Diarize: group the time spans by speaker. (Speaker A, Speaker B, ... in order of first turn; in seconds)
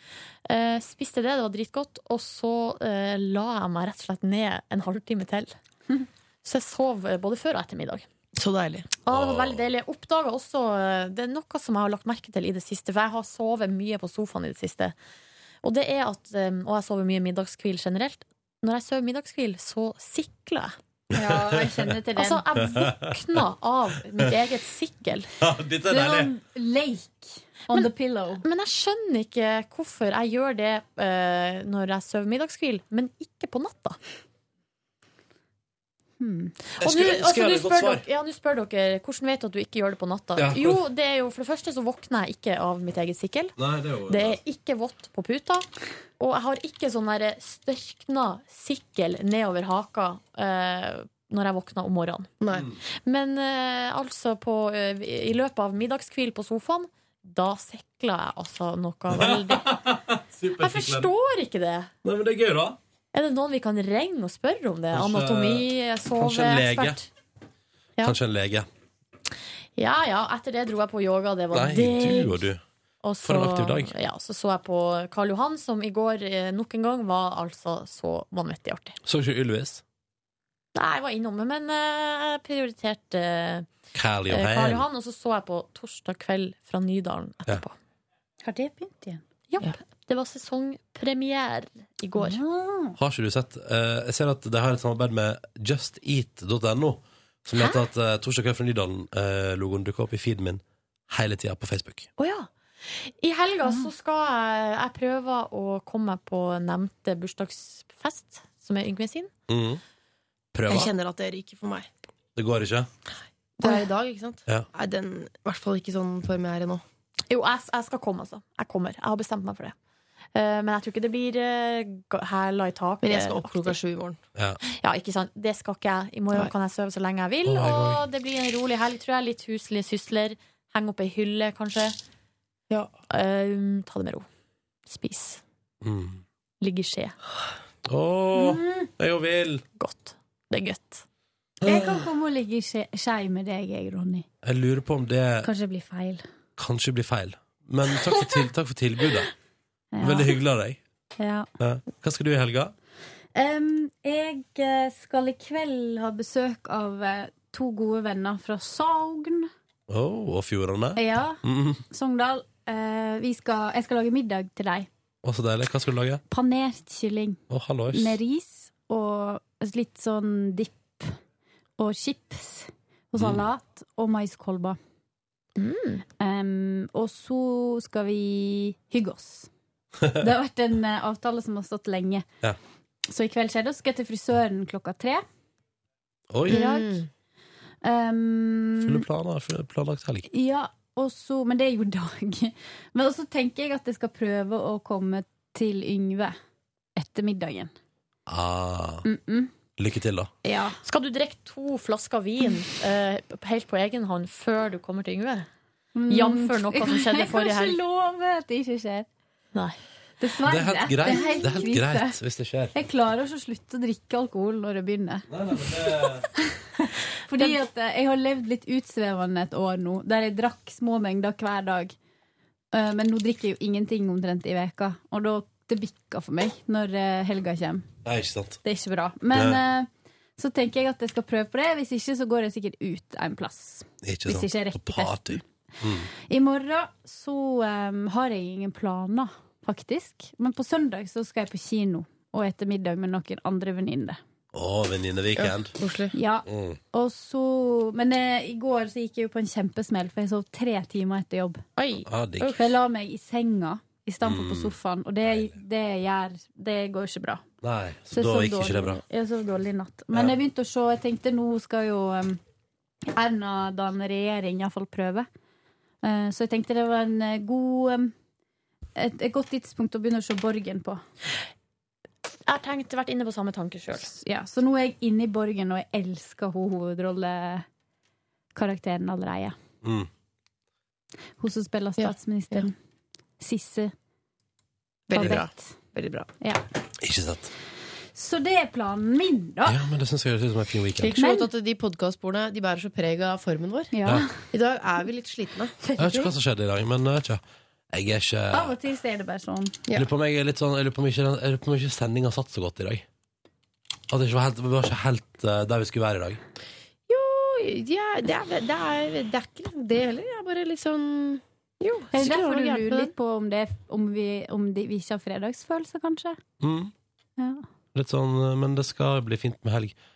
Speaker A: 0.5-5.5, 6.4-8.1, 9.0-14.9, 15.6-20.7, 22.1-25.3, 27.7-34.0, 36.7-43.5, 44.1-45.6, 46.2-52.3, 53.0-59.7, 60.6-61.9, 63.1-67.0, 69.8-72.4, 73.0-79.0, 80.7-83.7, 84.3-87.7, 89.5-92.4, 102.2-109.3, 117.3-119.7, 120.3-123.7, 124.7-131.9, 133.1-134.2, 134.9-135.4, 136.6-137.2, 139.8-141.0, 175.6-176.0, 200.8-205.5, 206.1-207.8, 251.8-252.6, 272.5-274.1
Speaker B: 8.3-8.9, 52.4-52.7, 110.7-111.9, 113.6-116.8, 123.0-124.2, 186.5-187.0, 245.4-246.1, 282.0-282.6, 285.1-286.3, 291.0-293.9, 294.5-295.9, 307.1-313.1
Speaker C: 9.1-9.6, 21.1-21.9, 22.6-23.4, 25.4-26.3, 36.8-38.0, 40.4-40.8, 43.6-44.4, 52.5-52.8, 59.1-61.1, 62.0-62.8, 64.9-67.0, 68.0-68.7, 71.5-72.6, 73.2-73.9, 79.0-79.8, 83.9-84.8, 93.0-102.1, 109.5-109.8, 110.5-110.9, 112.3-112.9, 127.5-128.0, 135.8-136.2, 137.9-139.6, 141.6-142.0, 144.4-145.5, 146.6-149.3, 150.0-150.8, 151.6-152.7, 159.9-161.8, 165.2-166.2, 167.5-168.2, 173.2-173.4, 186.3-186.6, 188.8-190.3, 198.3-199.1, 199.8-200.3, 210.4-212.7, 215.3-216.3, 228.0-228.6, 229.3-229.6, 234.0-236.1, 244.5-245.8, 246.4-246.8, 252.1-252.6, 254.2-254.7, 257.6-259.0, 279.8-280.1, 287.0-287.5, 289.6-291.1, 296.0-298.7, 299.9-303.0, 304.1-306.4, 316.6-316.9, 317.9-319.9
Speaker D: 21.1-22.8, 25.9-28.4, 36.2-36.5, 88.4-89.2, 92.2-93.0, 138.3-138.9, 141.6-144.2, 145.4-146.2, 147.9-148.4, 149.9-150.4, 151.2-151.5, 153.3-159.5, 160.9-164.9, 166.3-167.4, 167.9-171.1, 171.8-174.8, 176.2-179.5, 180.2-182.2, 183.1-185.2, 186.5-187.0, 187.8-189.1, 190.3-196.3, 197.0-197.7, 199.0-199.5, 200.4-200.8, 205.9-209.1, 210.2-212.2, 212.7-216.4, 216.9-221.9, 222.7-227.8, 228.6-235.4, 236.2-244.2, 246.1-251.6, 252.5-257.4, 258.1-262.4, 263.1-265.2, 266.0-268.1, 268.9-271.0, 274.0-277.6, 278.5-279.5, 281.4-282.8, 283.4-283.9, 285.1-285.7, 288.1-289.8, 291.1-291.5, 293.9-294.3, 295.8-296.3, 298.5-299.8, 312.1-316.4, 317.4-317.6